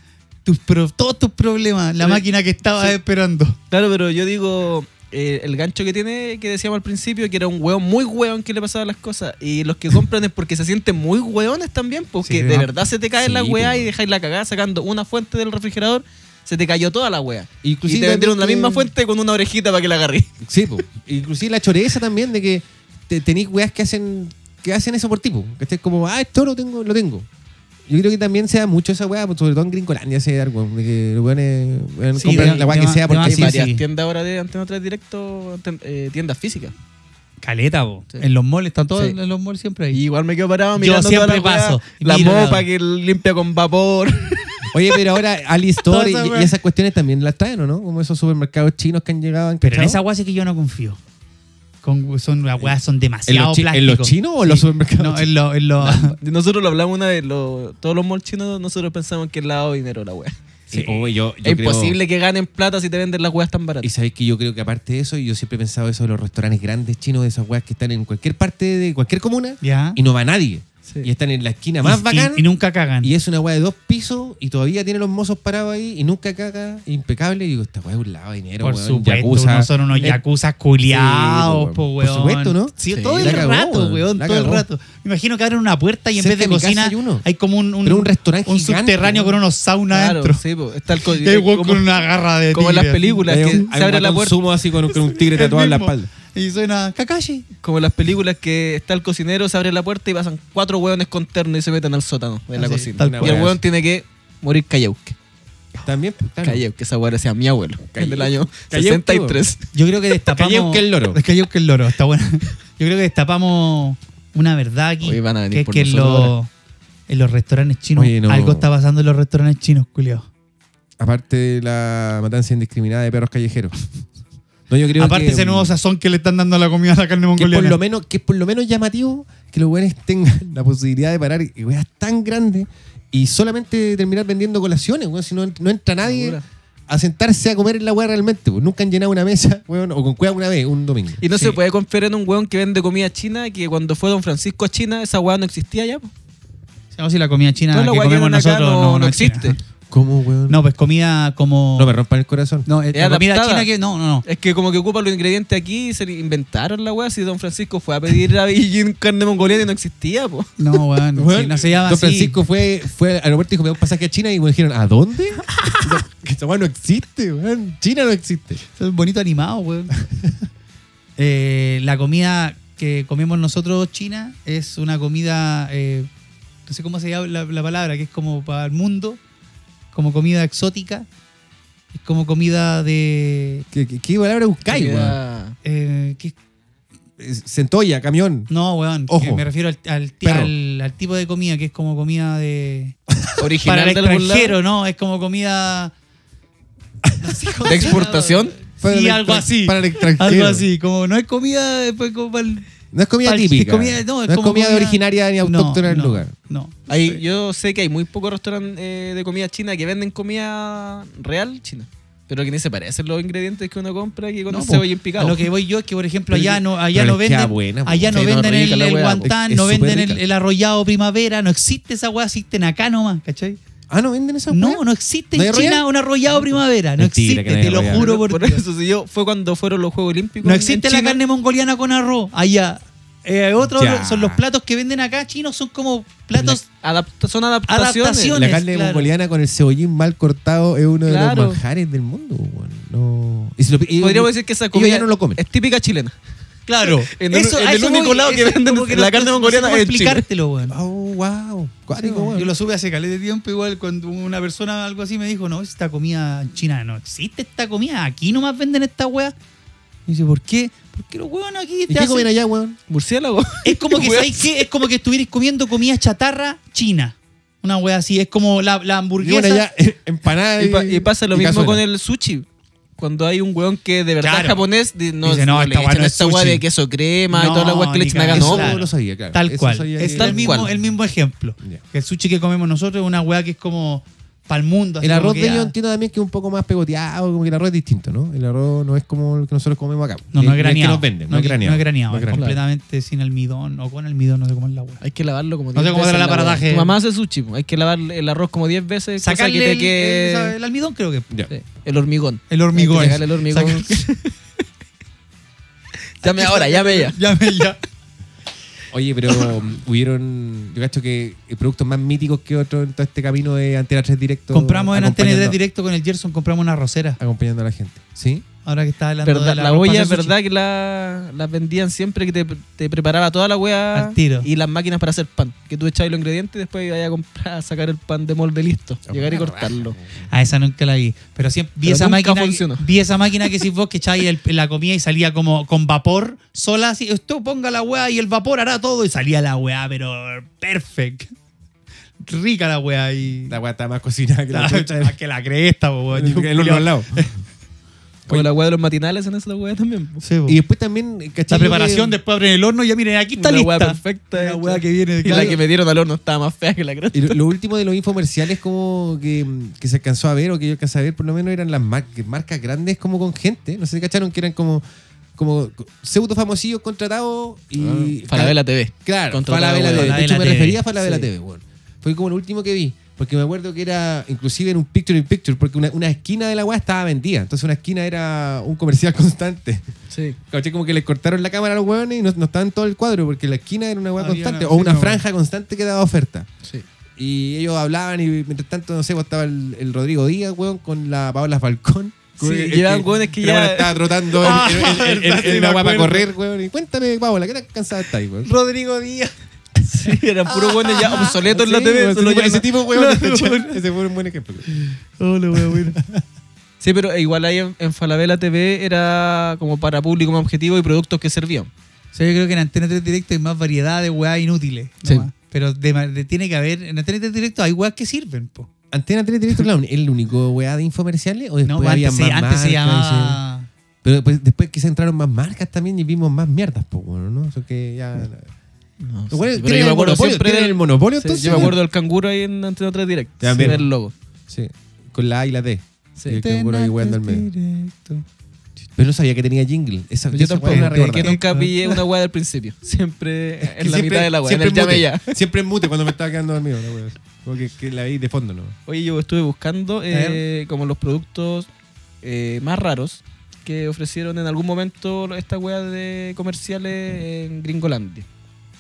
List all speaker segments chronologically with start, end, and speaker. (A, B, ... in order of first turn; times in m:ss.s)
0:00.4-0:03.6 A
0:03.7-0:20.3 B
0:12.2-0:12.7 A
0:13.2-0:13.9 C
0:17.6-0:18.9 C
0:20.4-0:27.3 C
0:27.9-0:33.6 C
0:32.2-0:32.6 B
0:32.2-0:33.8 A
0:33.2-0:36.7 B
0:37.4-0:40.0 A
0:39.9-0:44.7 B
0:40.8-0:42.6 A
0:44.7-0:50.0 C
0:45.9-0:46.5 A
0:49.6-0:51.0 A
0:51.8-0:56.2 A
0:53.3-0:55.3 C
0:55.9-1:00.3 B
1:00.7-1:02.0 C
1:00.7-1:01.0 A
1:01.4-1:03.9 B
1:03.8-1:12.5 C
1:09.6-1:10.0 A
1:11.8-1:13.1 A
1:13.0-1:20.2 C
1:18.6-1:30.4 A
1:20.9-1:24.6 C
1:22.9-1:23.5 B
1:26.2-1:27.2 C
1:27.8-1:29.4 C
1:29.9-1:34.5 B
1:31.1-1:33.6 A
1:33.3-1:36.1 C
1:34.9-1:37.4 A
1:37.6-1:45.1 B
1:42.6-1:43.4 A
1:43.0-1:43.6 C
1:45.8-1:46.6 C
1:46.4-1:49.6 B
1:47.9-1:49.4 C
1:49.7-1:56.5 A
1:50.3-1:51.2 C
1:55.0-1:56.3 B
1:57.1-2:00.3 A
1:58.0-1:58.7 C
2:01.0-2:03.7 C
2:04.7-2:05.7 C
2:05.0-2:07.8 A
2:07.4-2:21.2 C
2:16.0-2:16.4 B
2:21.2-2:26.1 B
2:26.9-2:29.6 A
2:27.7-2:29.6 B
2:29.9-2:30.6 C
2:30.5-2:31.9 A
2:31.8-2:32.7 C
2:32.6-2:34.2 A
2:32.9-2:33.7 B
2:34.2-2:40.5 B
2:40.6-2:42.4 A
2:41.2-2:48.6 C
2:48.8-2:49.9 A
2:50.0-2:50.3 C
2:51.2-2:56.1 A
2:56.7-2:59.2 A
2:59.9-3:01.1 A
3:01.9-3:03.6 A
3:03.7-3:05.2 C
3:04.7-3:05.6 B
3:05.6-3:06.3 A
3:07.2-3:08.5 C
3:08.5-3:13.0 A
3:09.1-3:09.4 C
3:10.2-3:10.5 C
3:13.4-3:14.6 B
3:13.6-3:15.9 A
3:17.0-3:18.0 C
3:17.2-3:22.7 A
3:17.6-3:18.5 B
3:18.8-3:20.6 C
3:22.9-3:26.3 C
3:23.2-3:27.2 A
3:26.9-3:35.5 B
3:34.5-3:43.6 A
3:36.3-3:38.5 C
3:38.1-3:39.3 B
3:39.2-3:40.2 C
3:43.9-3:45.8 C
3:44.5-3:48.6 A
3:47.0-3:48.0 C
3:47.9-3:51.2 B
3:50.4-3:56.6 A
3:53.6-3:54.4 C
3:56.7-3:58.4 B
3:57.7-3:59.1 A
3:58.3-4:05.4 C
4:01.0-4:01.6 B
4:04.0-4:06.1 B
4:06.7-4:10.8 A
4:06.8-4:10.2 B
4:10.7-4:12.5 C
4:11.9-4:19.3 A
4:20.1-4:22.3 A
4:21.9-4:22.8 C
4:22.9-4:24.5 B
4:23.6-4:29.6 A
4:29.2-4:31.8 C
4:30.6-4:32.4 B
4:33.0-4:38.8 B
4:34.2-4:34.6 A
4:35.2-4:36.6 A
4:37.3-4:45.7 A
4:38.3-4:40.7 C
4:40.1-4:40.7 B
4:45.0-4:52.4 C
4:50.3-4:55.0 A
4:52.3-4:52.6 B
4:55.0-5:00.5 B
4:55.7-4:56.9 A
4:59.2-5:01.3 A
5:01.5-5:04.3 B
5:02.5-5:04.0 A
5:06.2-5:07.2 B
5:06.2-5:07.8 A
5:08.9-5:15.6 C
5:14.5-5:17.2 A
5:17.2-5:18.4 C
5:18.6-5:20.3 A
5:19.2-5:30.0 B
5:23.9-5:24.5 A
5:29.1-5:30.3 C
5:30.3-5:41.3 A
5:31.8-5:32.8 B
5:42.2-5:43.6 A
5:43.5-5:45.2 C
5:44.5-5:47.3 A
5:46.1-5:47.3 C
5:48.3-5:50.2 B
5:50.2-5:50.6 A
5:50.5-5:52.2 C
5:51.5-5:55.6 A
5:53.4-5:57.4 B
5:57.1-6:04.8 C
6:05.4-6:19.9 C
6:07.8-6:10.2 B
6:09.9-6:10.8 A
6:20.1-6:20.4 B
6:20.5-6:26.5 C
6:24.2-6:25.2 A
6:27.2-6:38.5 C
6:32.4-6:34.1 B
6:34.4-6:36.3 A
6:38.4-6:39.3 A
6:39.9-6:42.7 B
6:40.5-6:41.4 A
6:41.1-6:44.7 C
6:42.9-6:43.8 A
6:44.7-6:46.0 A
6:46.8-6:51.7 B
6:52.1-6:58.7 A
6:58.9-7:03.4 C
7:01.6-7:03.7 A
7:04.0-7:08.5 C
7:09.0-7:14.1 B
7:09.3-7:11.8 C
7:13.4-7:13.8 C
7:14.5-7:17.5 C
7:16.3-7:18.2 A
7:19.0-7:21.3 C
7:20.3-7:25.3 B
7:20.6-7:22.0 A
7:23.6-7:28.7 C
7:28.9-7:31.7 B
7:30.1-7:30.4 A
7:32.2-7:38.2 B